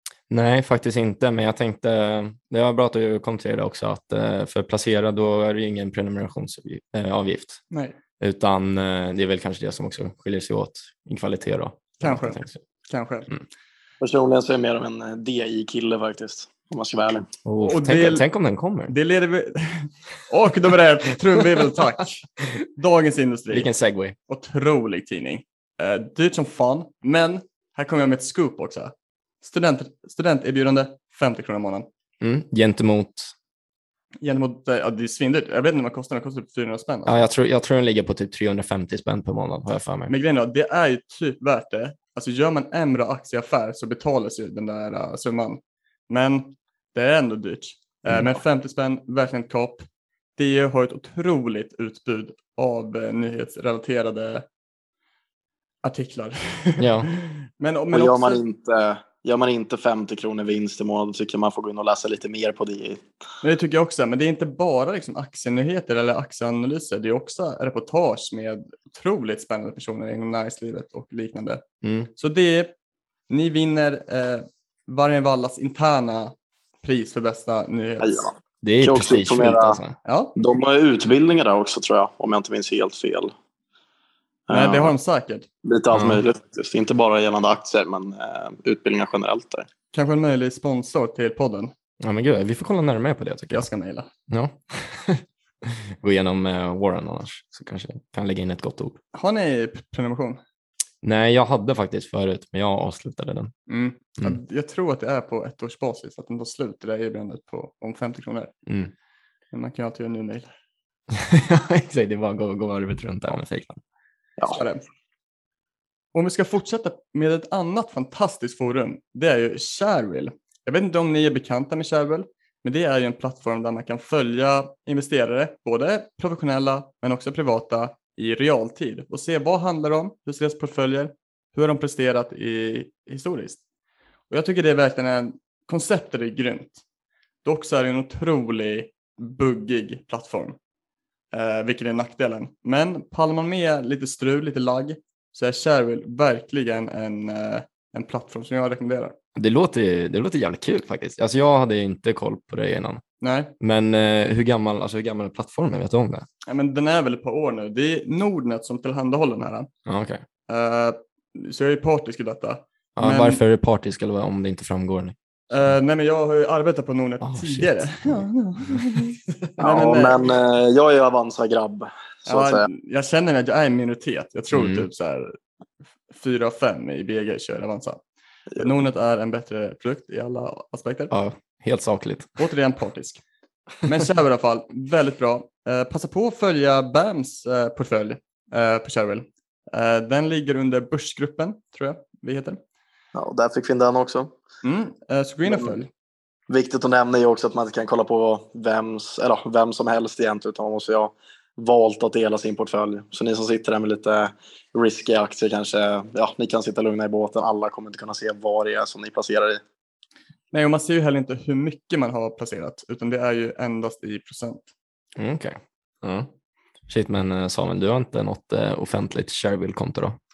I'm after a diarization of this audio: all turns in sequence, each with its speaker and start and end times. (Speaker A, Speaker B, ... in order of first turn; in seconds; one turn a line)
Speaker A: 0.3-7.6
Speaker A: 8.2-12.6
Speaker B: 12.0-13.3
Speaker C: 14.0-17.3
Speaker A: 17.4-18.9
Speaker B: 17.6-18.2
Speaker B: 18.9-23.7
Speaker A: 23.5-24.1
Speaker B: 24.3-31.9
Speaker A: 32.2-33.3
Speaker B: 34.2-37.3
Speaker A: 37.0-40.1
Speaker B: 40.1-54.5
Speaker B: 55.8-58.4
Speaker A: 56.8-57.1
Speaker C: 57.9-63.0
Speaker B: 63.4-71.6
Speaker A: 71.8-72.1
Speaker B: 72.2-72.7
Speaker B: 73.3-78.3
Speaker C: 78.0-79.8
Speaker A: 78.6-80.0
Speaker B: 80.0-80.3
Speaker C: 80.3-83.3
Speaker C: 84.5-84.9
Speaker B: 84.5-85.5
Speaker C: 85.6-89.7
Speaker A: 85.9-86.2
Speaker B: 89.9-91.7
Speaker A: 92.0-93.7
Speaker B: 93.5-94.1
Speaker A: 94.3-99.0
Speaker B: 99.1-100.4
Speaker A: 101.0-103.5
Speaker B: 103.7-108.5
Speaker A: 108.7-108.9
Speaker B: 109.5-110.5
Speaker A: 111.1-113.8
Speaker B: 114.5-114.8
Speaker B: 116.1-133.6
Speaker B: 134.3-136.8
Speaker B: 137.4-140.6
Speaker B: 141.3-149.2
Speaker A: 149.3-153.0
Speaker B: 153.2-153.5
Speaker A: 153.6-156.3
Speaker B: 156.5-159.7
Speaker A: 159.8-160.2
Speaker B: 160.5-163.4
Speaker A: 162.9-165.2
Speaker B: 165.5-170.3
Speaker A: 167.2-168.2
Speaker C: 169.6-172.7
Speaker B: 172.3-175.3
Speaker A: 174.5-174.9
Speaker B: 176.1-178.0
Speaker B: 178.6-181.1
Speaker A: 181.1-182.3
Speaker B: 182.4-183.2
Speaker B: 183.8-192.6
Speaker C: 193.1-194.3
Speaker B: 194.6-195.9
Speaker C: 195.4-195.8
Speaker C: 196.5-209.6
Speaker B: 210.5-214.7
Speaker A: 215.2-216.3
Speaker A: 216.9-220.2